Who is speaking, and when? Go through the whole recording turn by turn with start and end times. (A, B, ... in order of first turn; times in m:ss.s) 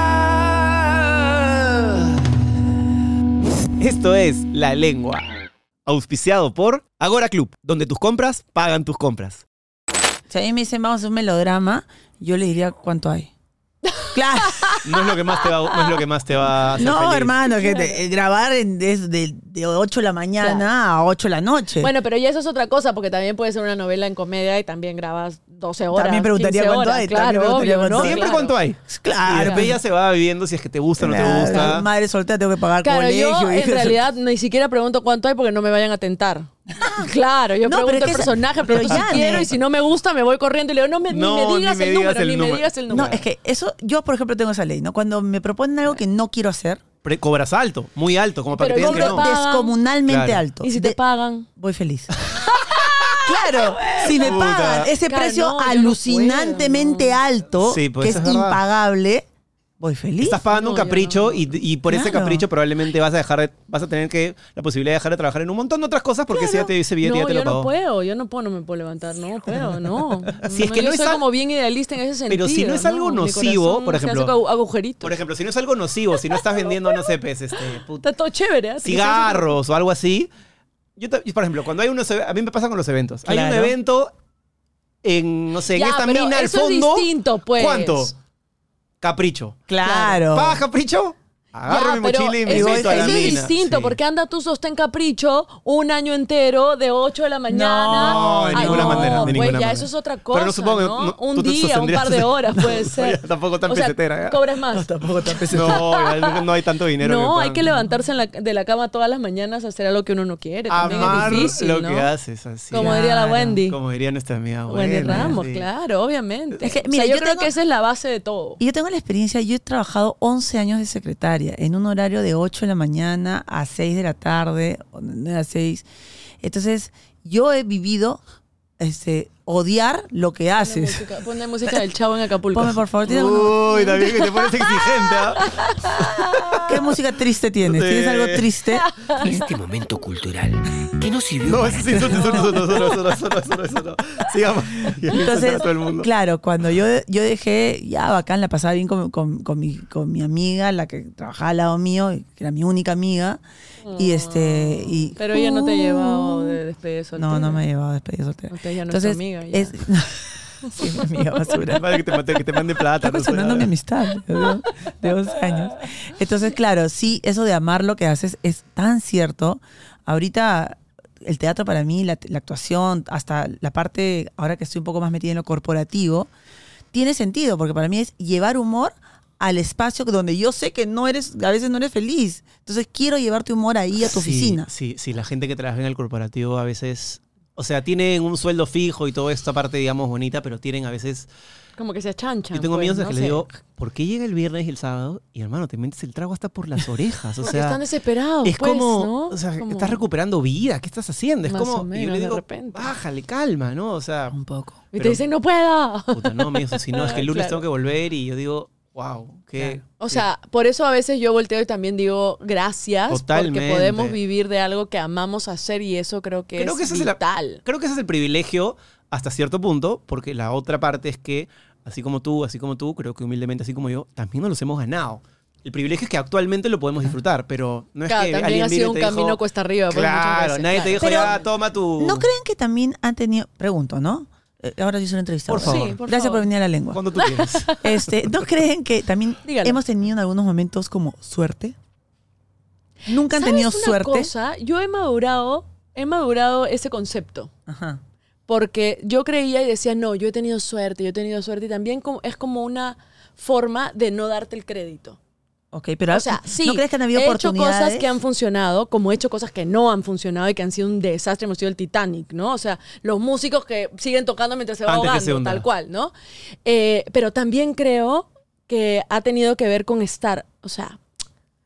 0:00.7-0:01.7 A
0:03.8-0:05.3 B
0:05.9-0:09.4 B
0:10.3-0:13.3 C
0:13.8-0:16.0 D
0:14.1-0:14.8 C
0:14.8-0:17.4 B
0:16.8-0:21.9 C
0:17.5-0:18.0 D
0:20.4-0:20.7 D
0:21.8-0:28.6 D
0:25.9-0:28.3 C
0:28.0-0:31.9 B
0:28.9-0:29.8 C
0:29.3-0:29.7 D
0:31.0-0:34.0 C
0:32.8-0:43.2 D
0:37.6-0:39.5 C
0:38.9-0:39.4 B
0:41.1-0:43.2 B
0:42.9-0:46.8 C
0:47.0-0:49.3 B
0:48.6-0:49.8 D
0:48.7-0:51.0 C
0:50.1-0:50.4 B
0:50.6-0:51.5 D
0:51.6-0:52.1 C
0:52.4-0:54.3 D
0:53.2-0:59.3 C
0:54.0-0:54.9 B
0:55.0-0:57.2 D
0:57.6-0:58.6 B
0:59.8-1:00.4 C
1:00.2-1:07.7 B
1:00.5-1:01.6 D
1:01.9-1:02.5 C
1:06.3-1:15.2 D
1:09.5-1:10.3 C
1:10.5-1:11.2 B
1:12.3-1:14.3 B
1:15.0-1:18.1 B
1:16.1-1:17.1 D
1:18.0-1:19.5 D
1:18.8-1:20.3 B
1:21.0-1:24.1 B
1:23.2-1:23.7 C
1:25.0-1:28.1 B
1:25.7-1:28.1 D
1:29.0-1:29.6 B
1:29.7-1:30.6 C
1:29.8-1:30.2 D
1:30.3-1:34.0 B
1:31.7-1:46.4 D
1:32.5-1:33.4 C
1:37.5-1:39.5 C
1:37.9-1:44.4 B
1:44.7-1:45.9 C
1:45.5-1:47.7 B
1:47.0-1:52.1 D
1:50.7-1:55.7 B
1:50.8-1:51.5 C
1:52.7-1:53.8 D
1:52.7-1:53.6 C
1:54.7-1:58.6 D
1:55.1-1:55.4 C
1:56.6-1:57.5 C
1:58.6-2:05.8 C
2:06.4-2:08.2 C
2:08.8-2:11.1 C
2:10.6-2:12.8 D
2:12.5-2:13.7 C
2:13.1-2:15.4 B
2:13.7-2:16.7 D
2:16.0-2:16.7 B
2:16.6-2:18.9 C
2:17.6-2:18.5 B
2:18.8-2:19.3 D
2:19.2-2:22.5 A
2:21.4-2:26.1 B
2:25.1-2:33.4 C
2:33.8-2:37.6 D
2:33.9-2:36.6 C
2:37.2-2:42.0 C
2:38.5-2:39.8 D
2:40.6-2:41.5 D
2:41.7-2:43.7 B
2:43.0-2:56.3 C
2:56.9-3:04.7 C
3:04.0-3:11.3 B
3:11.8-3:13.5 D
3:12.5-3:17.8 B
3:17.4-3:20.0 D
3:18.4-3:24.4 B
3:21.4-3:22.9 D
3:24.3-3:24.8 C
3:24.9-3:25.2 B
3:24.9-3:27.6 D
3:26.1-3:30.2 B
3:30.0-3:37.6 D
3:33.1-3:34.2 B
3:36.6-3:52.3 B
3:48.1-3:51.4 D
3:51.0-3:51.3 C
3:52.0-3:57.0 C
3:55.5-3:56.0 B
3:55.6-3:56.4 D
3:56.9-3:57.8 B
3:57.2-3:57.9 D
3:57.8-4:01.8 C
3:59.4-3:59.8 D
4:03.1-4:04.3 C
4:03.3-4:07.5 D
4:07.7-4:08.0 C
4:08.5-4:15.2 D
4:15.7-4:18.1 C
4:16.1-4:26.1 D
4:24.9-4:25.7 B
4:26.6-4:31.0 D